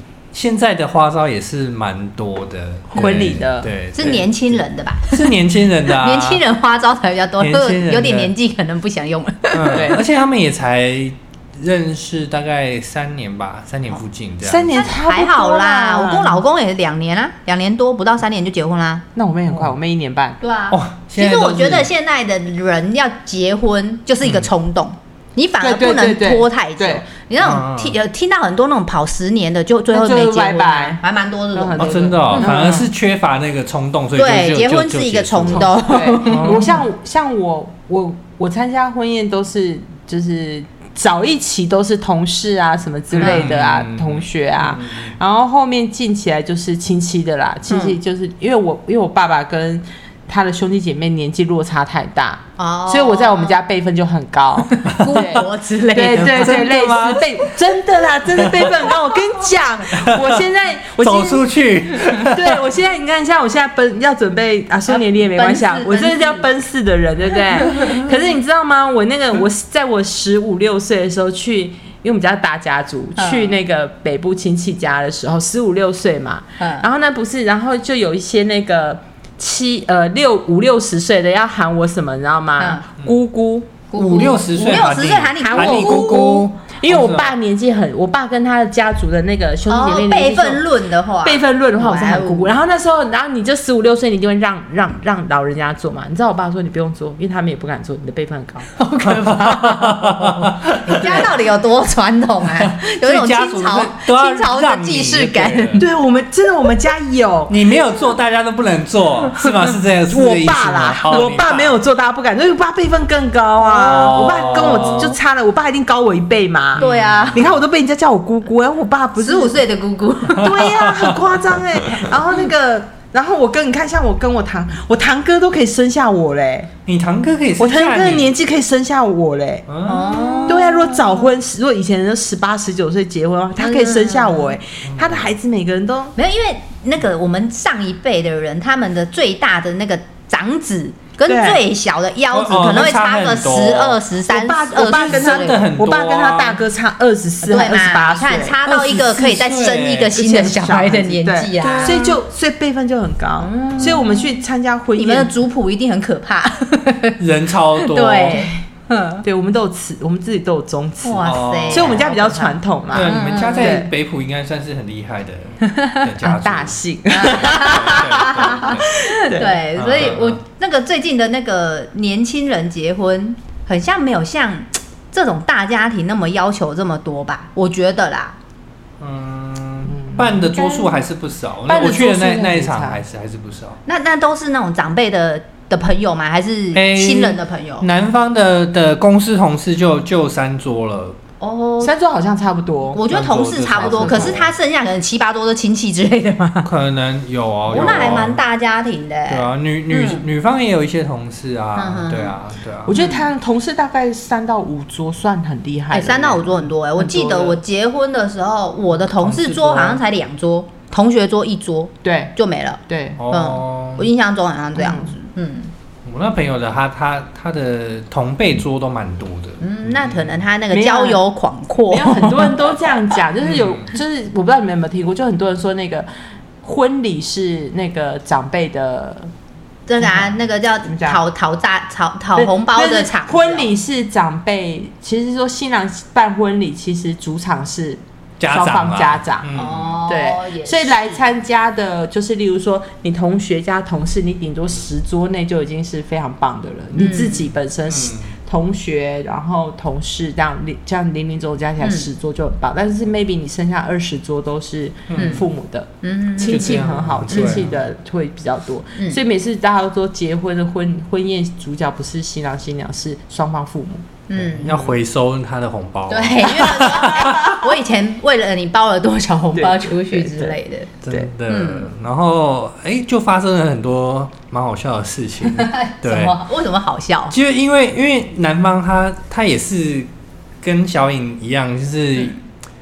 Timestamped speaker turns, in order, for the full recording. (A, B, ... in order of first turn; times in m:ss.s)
0:00.3-0:06.4 A
0:02.9-0:03.7 B
0:03.9-0:05.3 C
0:05.9-0:10.0 C
0:07.4-0:08.3 A
0:09.5-0:14.9 A
0:09.7-0:10.0 B
0:14.4-0:16.4 B
0:14.7-0:19.0 C
0:19.1-0:20.4 B
0:20.4-0:32.5 C
0:20.7-0:21.9 A
0:25.6-0:27.0 B
0:27.4-0:28.0 A
0:29.9-0:31.0 B
0:31.5-0:32.9 B
0:31.8-0:36.8 A
0:34.2-0:36.7 C
0:35.5-1:01.5 B
0:43.1-0:45.1 A
0:43.2-0:43.5 C
0:47.7-0:48.0 C
0:52.6-0:53.6 C
0:54.7-0:56.7 C
0:56.1-0:57.2 A
0:58.3-0:58.7 A
0:59.9-1:00.4 A
1:01.0-1:02.6 A
1:02.2-1:23.7 B
1:04.9-1:06.4 C
1:13.2-1:13.6 C
1:16.6-1:16.9 C
1:23.9-1:26.4 C
1:23.9-1:27.3 A
1:25.4-1:30.7 B
1:29.7-1:32.5 C
1:31.2-1:38.7 B
1:38.7-1:45.8 C
1:39.0-1:41.3 A
1:42.4-1:45.9 A
1:45.8-1:47.6 B
1:47.5-1:51.8 A
1:50.1-1:59.6 B
1:53.8-1:55.2 A
1:56.8-1:57.4 C
1:56.8-1:57.4 A
1:59.2-2:00.7 C
2:00.3-2:06.7 B
2:00.4-2:01.2 A
2:06.8-2:08.3 A
2:07.6-2:09.7 B
2:09.7-2:10.6 A
2:09.8-2:11.2 C
2:10.4-2:16.1 B
2:13.6-2:14.6 C
2:14.9-2:15.3 A
2:16.2-2:25.6 C
2:21.3-2:21.6 B
2:22.3-2:24.0 A
2:24.3-2:28.6 B
2:24.8-2:26.6 A
2:27.4-2:32.2 C
2:28.6-2:30.2 A
2:30.1-2:35.3 B
2:33.4-2:34.3 C
2:33.8-2:34.1 A
2:35.0-2:37.2 C
2:37.2-2:38.5 A
2:37.8-2:39.2 C
2:39.2-2:43.9 B
2:41.0-2:43.9 C
2:41.2-2:42.0 A
2:42.9-2:48.9 A
2:45.7-2:46.0 C
2:46.2-2:49.6 B
2:47.1-2:58.4 C
2:49.8-2:50.4 A
2:59.0-3:03.8 A
2:59.9-3:00.5 B
3:00.5-3:01.0 C
3:01.7-3:03.0 B
3:03.8-3:07.9 C
3:06.7-3:11.2 A
3:11.4-3:11.9 C
3:11.8-3:13.0 B
3:12.9-3:16.7 C
3:13.1-3:14.5 A
3:13.8-3:14.4 B
3:16.6-3:18.4 A
3:17.7-3:20.2 C
3:19.3-3:23.0 A
3:21.8-3:22.4 C
3:22.8-3:27.6 B
3:22.9-3:23.2 C
3:25.9-3:35.7 C
3:29.1-3:30.0 A
3:32.0-3:32.3 B
3:32.9-3:33.2 B
3:33.2-3:34.0 A
3:34.7-3:35.1 B
3:36.0-3:40.2 A
3:39.6-3:42.6 C
3:40.7-3:41.2 B
3:41.9-3:46.1 B
3:43.4-3:43.9 A
3:46.6-3:49.3 B
3:49.9-3:53.7 C
3:50.0-3:50.3 B
3:50.8-3:51.2 B
3:52.4-3:59.5 B
3:58.4-4:00.0 A
3:59.5-4:01.2 C
4:00.1-4:24.0 B
4:07.0-4:07.4 C
4:07.9-4:08.3 A
4:15.1-4:15.4 A
4:15.1-4:15.4 C
4:16.0-4:17.6 C
4:16.4-4:17.7 A
4:24.3-4:24.8 C
4:24.3-4:27.5 A
4:26.1-4:30.9 C
4:29.5-4:30.5 B
4:31.0-4:36.4 A
4:31.4-4:31.9 C
4:35.6-4:37.4 C
4:37.3-4:40.1 A
4:40.6-4:42.4 A